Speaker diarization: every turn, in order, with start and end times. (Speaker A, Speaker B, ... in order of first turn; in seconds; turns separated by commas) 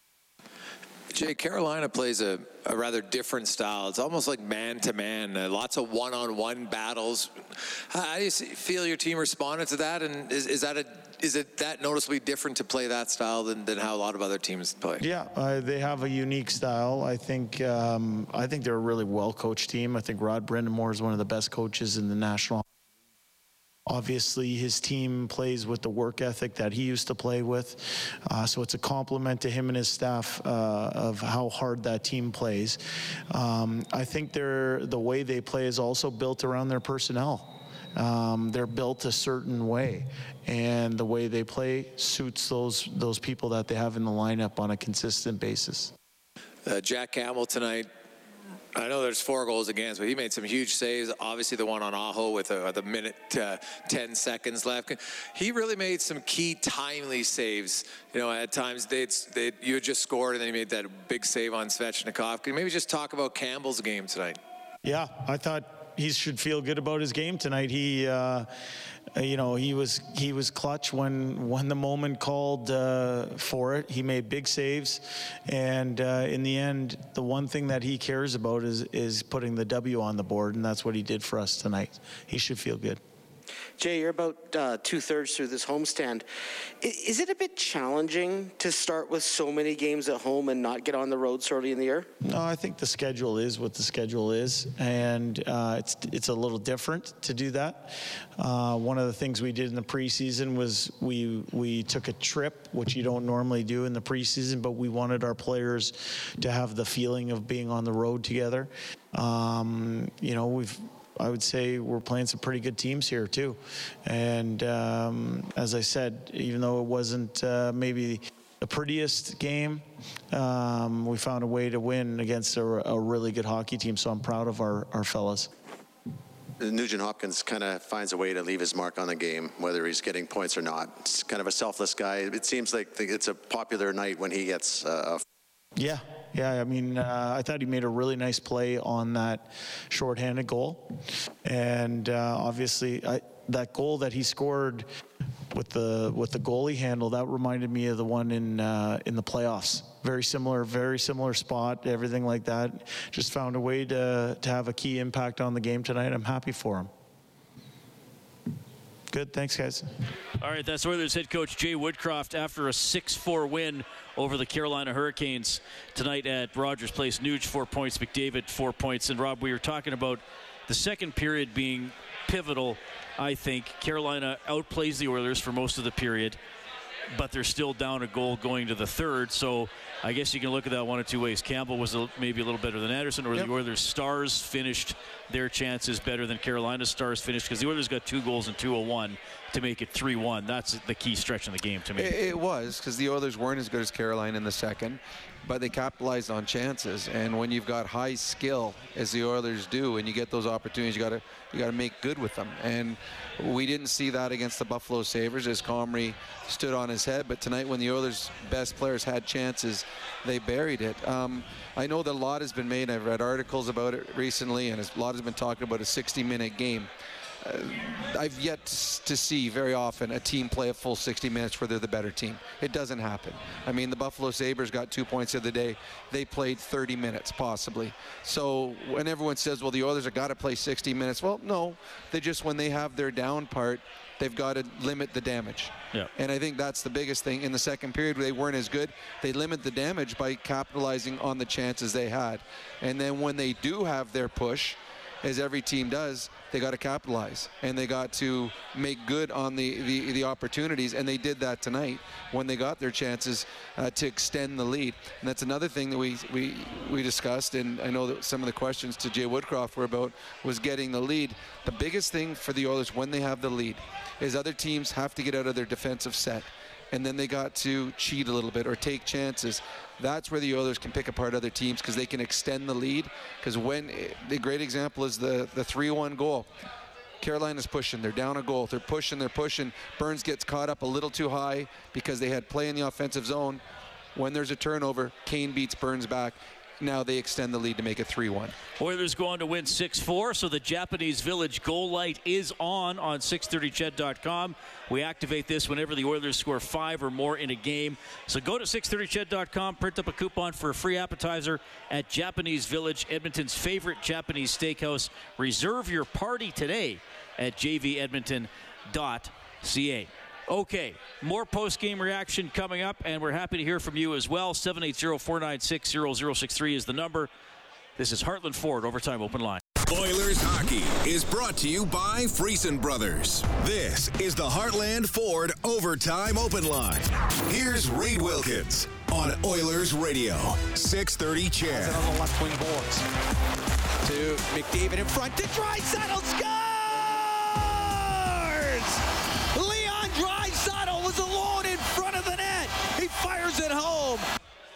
Speaker A: 1.1-15.0, Speaker B: 15.0-22.6, Speaker B: 23.9-45.9, Speaker A: 46.6-47.9, Speaker A: 48.8-64.4, Speaker B: 64.8-68.5, Speaker B: 69.2-83.0, Speaker C: 83.8-86.3, Speaker C: 86.8-92.1, Speaker B: 92.2-125.5, Speaker D: 126.6-135.2, Speaker B: 135.8-144.9, Speaker B: 145.5-156.9, Speaker B: 159.1-159.9, Speaker E: 160.4-176.4, Speaker E: 177.1-192.2, Speaker F: 192.0-216.9, Speaker F: 217.4-276.5, Speaker F: 277.2-283.6, Speaker F: 284.1-288.6, Speaker E: 288.8-317.3, Speaker E: 318.0-319.6, Speaker G: 319.9-332.1, Speaker H: 331.7-333.1, Speaker H: 334.0-339.0, Speaker H: 339.5-344.2